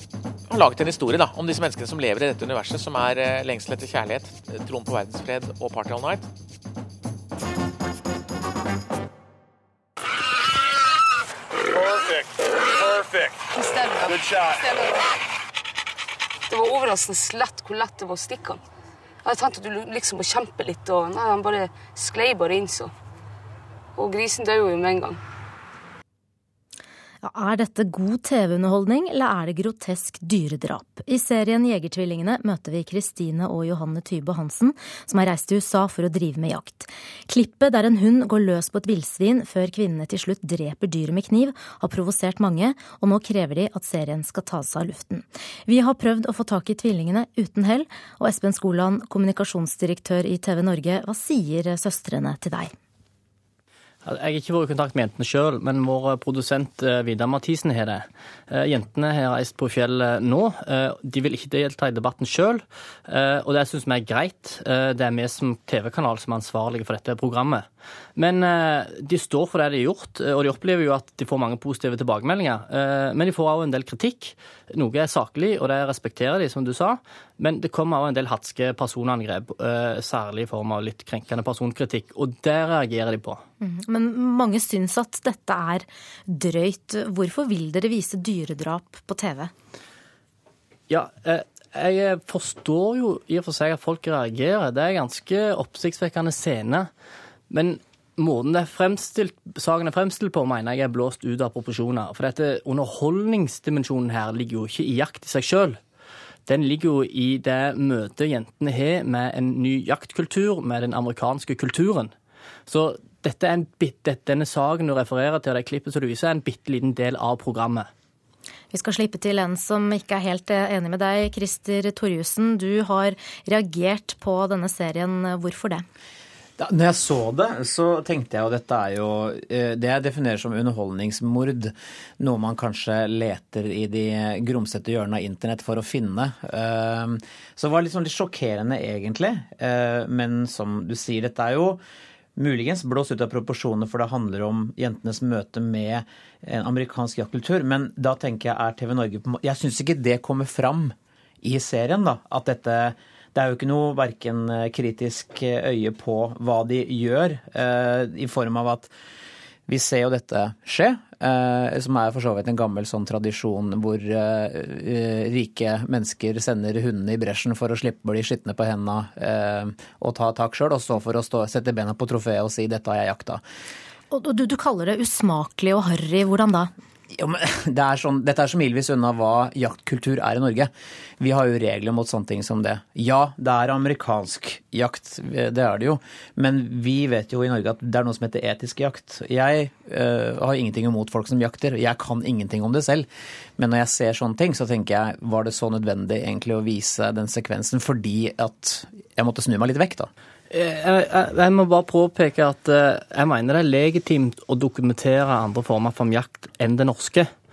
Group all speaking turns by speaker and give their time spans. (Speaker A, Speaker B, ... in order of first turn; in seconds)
Speaker A: 0.5-6.3
Speaker B: 11.7-15.0, 16.5-18.6, 19.2-22.9, 24.0-25.2
Speaker C: 27.2-52.7, 83.6-89.5, 118.7-125.8, 174.1-176.7
Speaker D: 54.0-83.4, 90.9-96.9, 97.5-105.8, 106.5-112.1, 112.7-117.9, 200.5-207.3
Speaker E: 126.6-141.8, 142.4-158.9, 159.7-173.4, 177.2-193.1, 193.6-200.1